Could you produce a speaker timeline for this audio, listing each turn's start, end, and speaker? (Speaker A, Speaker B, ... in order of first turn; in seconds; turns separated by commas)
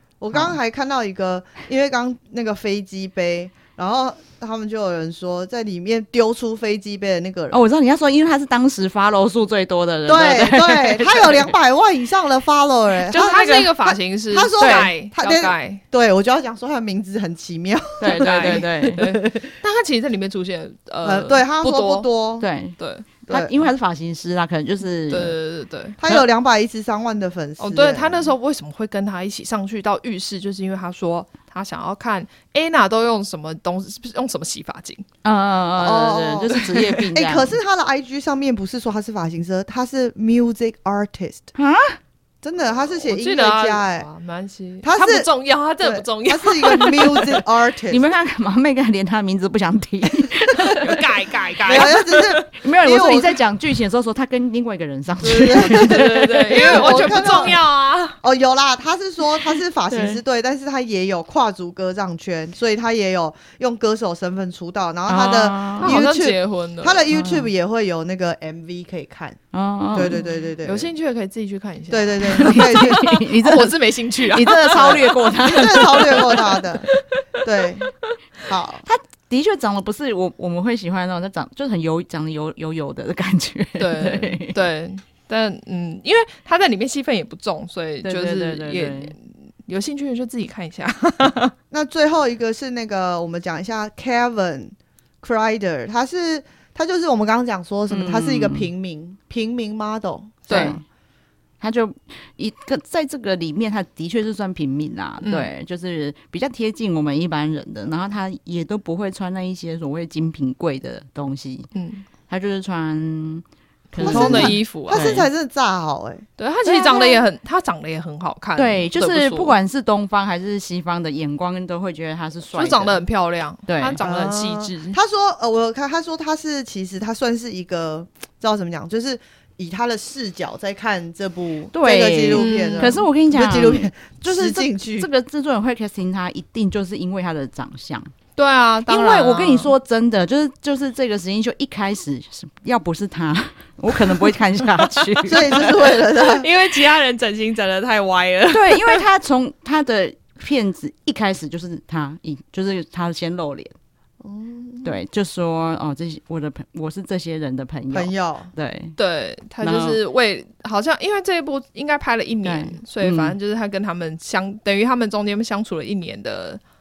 Speaker A: 0.2-7.6, Speaker B: 7.5-11.5, Speaker A: 10.1-19.6, Speaker C: 13.1-15.8, Speaker B: 13.1-13.5, Speaker B: 14.6-14.9, Speaker B: 18.0-19.0, Speaker C: 18.1-22.1, Speaker A: 21.0-22.5, Speaker B: 22.4-25.4, Speaker C: 22.8-23.1, Speaker A: 23.3-23.6, Speaker C: 25.1-26.0, Speaker A: 26.0-28.3, Speaker C: 27.6-35.0, Speaker B: 35.2-37.6, Speaker A: 35.8-41.5, Speaker C: 36.5-37.1, Speaker B: 41.5-42.0, Speaker A: 42.4-44.1, Speaker C: 43.1-47.4, Speaker A: 44.8-48.0, Speaker B: 47.9-51.0, Speaker C: 50.6-52.0, Speaker A: 51.7-53.4, Speaker B: 51.7-57.5, Speaker A: 55.2-57.6, Speaker C: 55.7-58.2, Speaker A: 58.2-69.4, Speaker B: 59.9-60.2, Speaker B: 65.1-66.0, Speaker C: 65.8-67.0, Speaker B: 67.1-67.5, Speaker B: 69.5-70.2, Speaker A: 69.9-70.9, Speaker C: 70.1-77.0, Speaker A: 71.9-73.2, Speaker B: 72.4-76.5, Speaker A: 74.8-76.9, Speaker A: 77.4-78.9, Speaker B: 78.9-84.5, Speaker C: 83.8-91.5, Speaker B: 88.0-89.1, Speaker A: 91.7-100.7, Speaker B: 97.9-98.7, Speaker C: 100.5-100.8, Speaker B: 100.5-100.8, Speaker B: 101.6-111.7, Speaker C: 105.2-105.5, Speaker C: 111.7-112.0, Speaker B: 112.3-115.3, Speaker C: 113.9-115.2, Speaker A: 114.0-116.3, Speaker C: 116.4-119.5, Speaker B: 116.7-117.2, Speaker B: 118.6-123.0, Speaker C: 122.5-125.0, Speaker B: 123.7-124.0, Speaker A: 124.0-135.1, Speaker B: 131.7-138.1, Speaker C: 132.3-133.0, Speaker C: 138.4-139.7, Speaker B: 138.9-145.9, Speaker C: 144.9-149.0, Speaker A: 145.3-146.5, Speaker B: 148.5-153.7, Speaker A: 154.2-155.0, Speaker B: 154.8-159.0, Speaker A: 157.9-158.5, Speaker C: 159.0-166.6, Speaker B: 159.6-160.0, Speaker B: 162.4-163.4